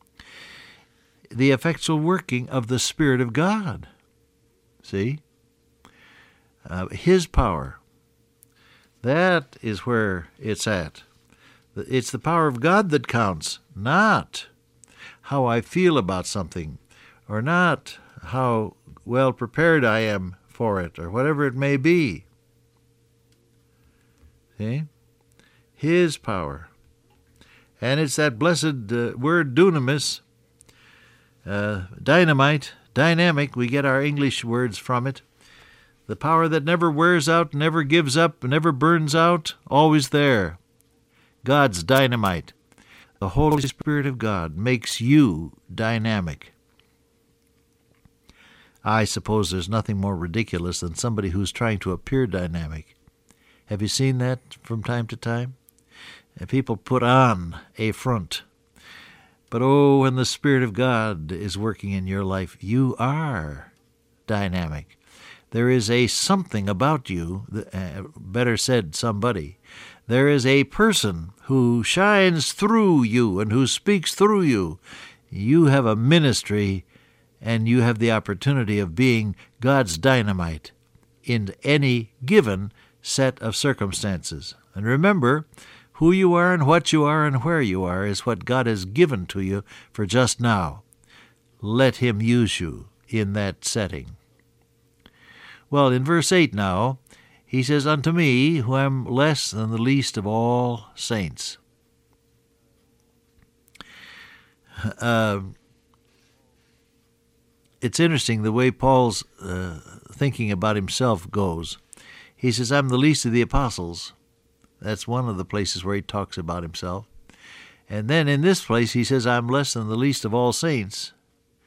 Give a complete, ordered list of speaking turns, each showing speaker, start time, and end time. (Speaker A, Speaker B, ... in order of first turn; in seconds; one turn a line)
Speaker A: 1.3-3.9
Speaker A: 4.8-5.2
Speaker A: 6.7-7.8
Speaker A: 9.0-11.1
Speaker A: 11.7-14.5
Speaker A: 15.2-22.2
Speaker A: 24.6-24.9
Speaker A: 25.8-26.7
Speaker A: 27.8-30.2
Speaker A: 31.4-35.2
Speaker A: 36.1-40.6
Speaker A: 41.4-42.5
Speaker A: 43.2-46.5
Speaker A: 48.8-52.9
Speaker A: 53.7-55.6
Speaker A: 56.4-58.5
Speaker A: 59.5-63.7
Speaker A: 64.3-65.0
Speaker A: 65.5-76.8
Speaker A: 77.4-80.7
Speaker A: 81.2-90.8
Speaker A: 91.6-94.2
Speaker A: 95.7-101.6
Speaker A: 104.8-105.5
Speaker A: 107.8-111.8
Speaker A: 112.4-114.1
Speaker A: 114.8-117.1
Speaker A: 117.9-121.1